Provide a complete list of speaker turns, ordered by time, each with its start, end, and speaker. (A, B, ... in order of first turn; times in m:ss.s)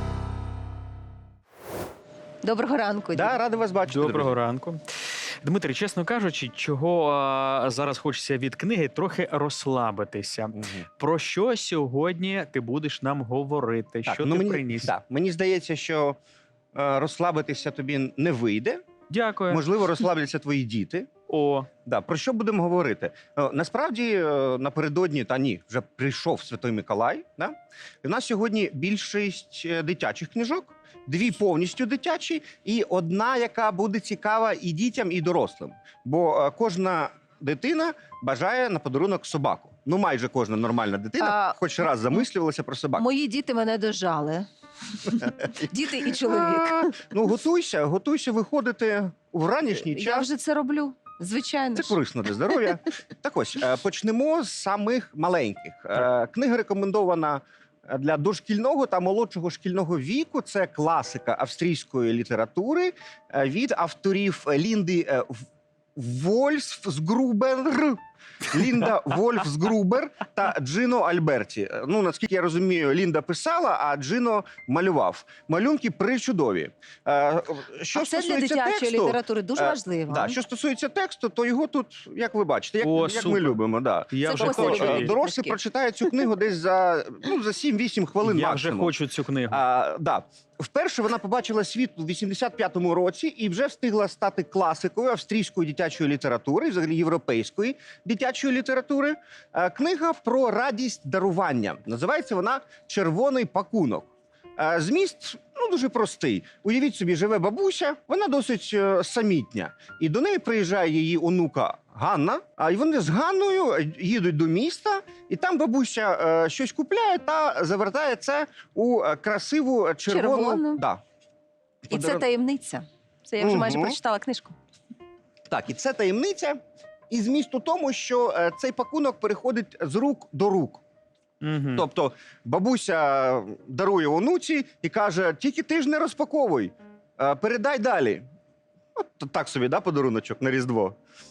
0:02.4-0:03.4 A
0:03.1-0:04.4 B
0:03.9-0:04.8 C
0:05.4-0:14.9 C
0:10.5-0:10.8 B
0:14.0-0:16.2 B
0:16.7-0:18.8 B
0:19.1-0:19.6 C
0:19.5-0:21.1 B
0:21.3-0:21.7 C
0:21.8-0:43.0 B
0:41.2-0:41.6 A
0:43.0-0:44.4 A
0:45.0-0:47.0 A
0:46.0-0:50.3 B
0:49.7-0:52.0 A
0:51.8-1:05.4 B
1:06.0-1:28.9 B
1:17.9-1:20.4 A
1:22.8-1:23.6 C
1:24.1-1:25.1 C
1:24.2-1:25.6 A
1:28.2-1:29.6 C
1:29.5-2:01.0 B
2:00.1-2:00.8 A
2:01.9-2:04.5 A
2:01.9-2:02.2 B
2:03.4-2:04.0 B
2:05.5-2:06.6 B
2:07.1-2:10.8 B
2:11.4-2:11.8 C
2:11.8-2:18.2 B
2:19.0-2:21.0 B